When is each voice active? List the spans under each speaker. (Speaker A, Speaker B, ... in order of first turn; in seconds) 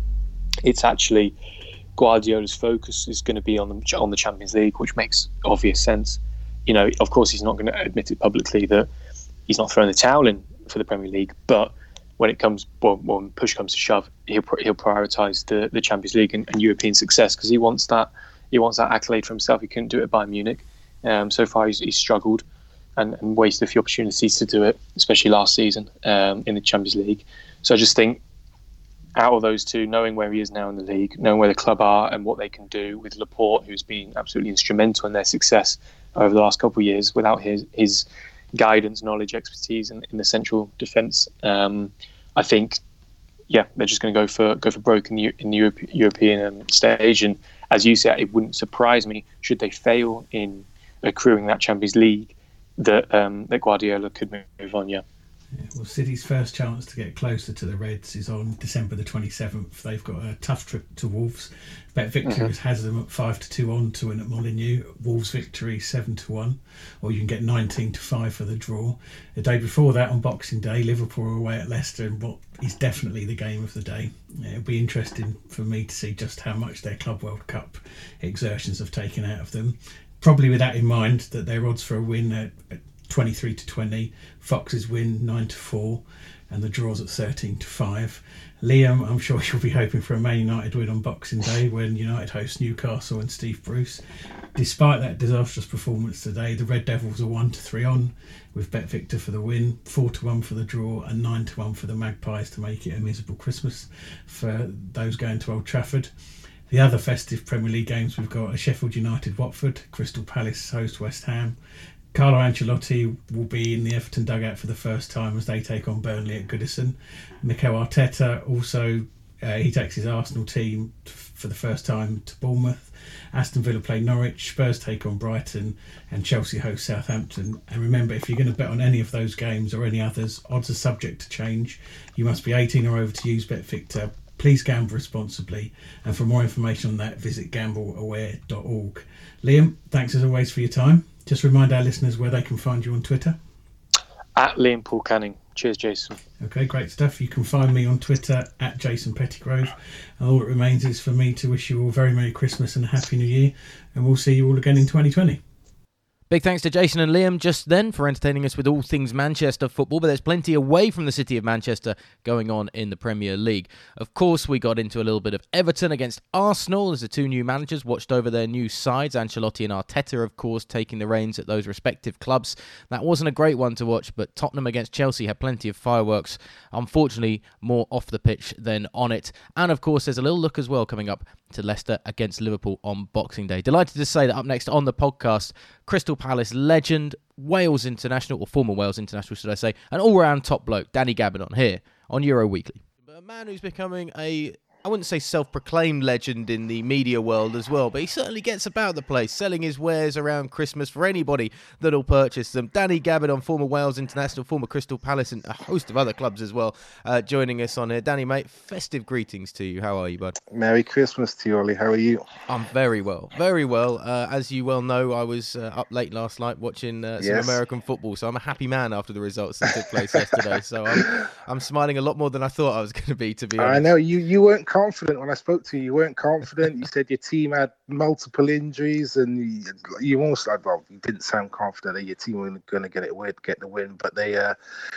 Speaker A: 0.6-1.4, 2.0-8.9, 9.5-22.4, 23.0-28.2, 29.2-42.8, 43.5-55.0, 62.2-62.5, 144.4-146.2
Speaker B: 55.6-94.0, 94.5-106.1, 106.7-111.6, 112.1-143.4, 146.4-155.4
Speaker C: 156.3-210.4, 212.5-223.9
Speaker D: 210.5-212.2, 217.2-217.6, 223.6-234.6